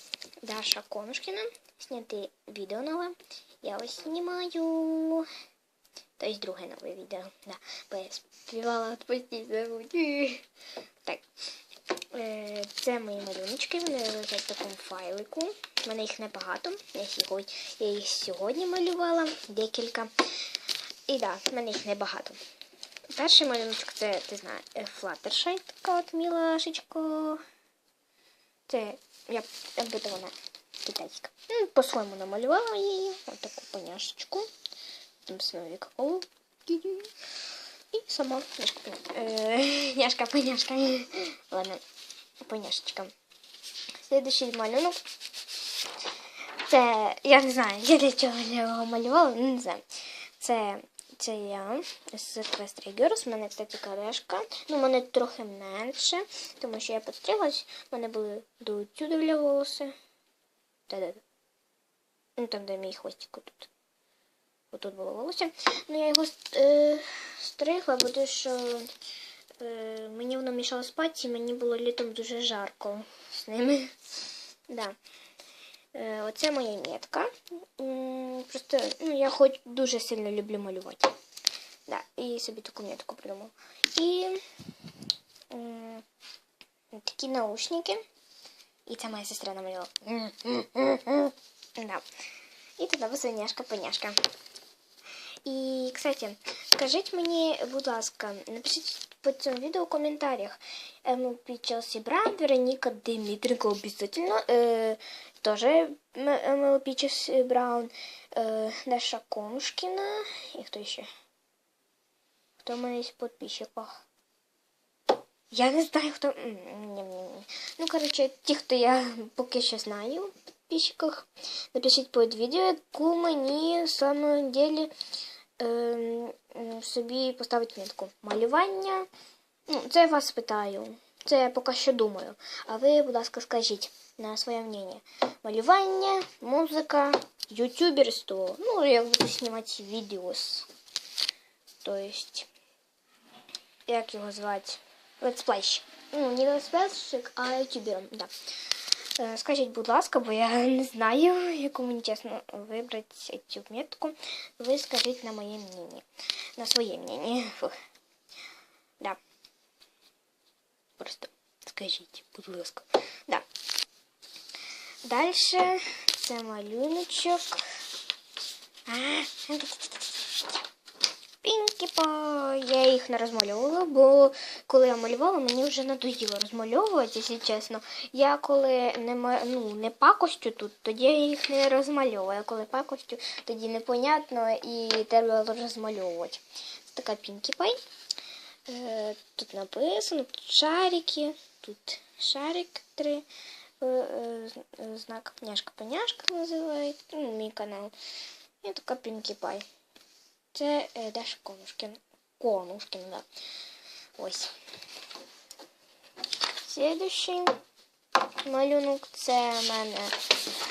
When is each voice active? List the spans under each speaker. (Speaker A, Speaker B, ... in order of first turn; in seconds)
Speaker A: 0.4-5.3, 6.2-10.4, 12.1-20.1, 21.1-22.4, 23.1-27.4, 28.7-34.5, 35.2-37.1, 37.9-41.8, 42.4-43.1, 44.0-45.0, 46.6-49.8, 50.4-60.0, 60.9-61.2, 62.4-63.7, 64.7-68.9, 69.6-73.9, 74.7-75.0, 75.9-81.1, 81.9-84.4, 85.5-86.0, 86.9-88.0, 88.8-92.0, 92.8-94.2, 95.4-111.1, 112.6-113.9, 115.5-124.9, 125.6-129.1, 129.7-140.7, 141.8-142.5, 143.9-148.3, 149.2-156.1, 156.6-157.7, 161.0-163.4, 165.0-167.6, 168.9-170.6, 171.4-187.8, 188.7-193.2, 193.8-197.9, 198.6-199.6, 200.5-203.2, 204.2-204.5, 206.6-207.6, 208.4-210.2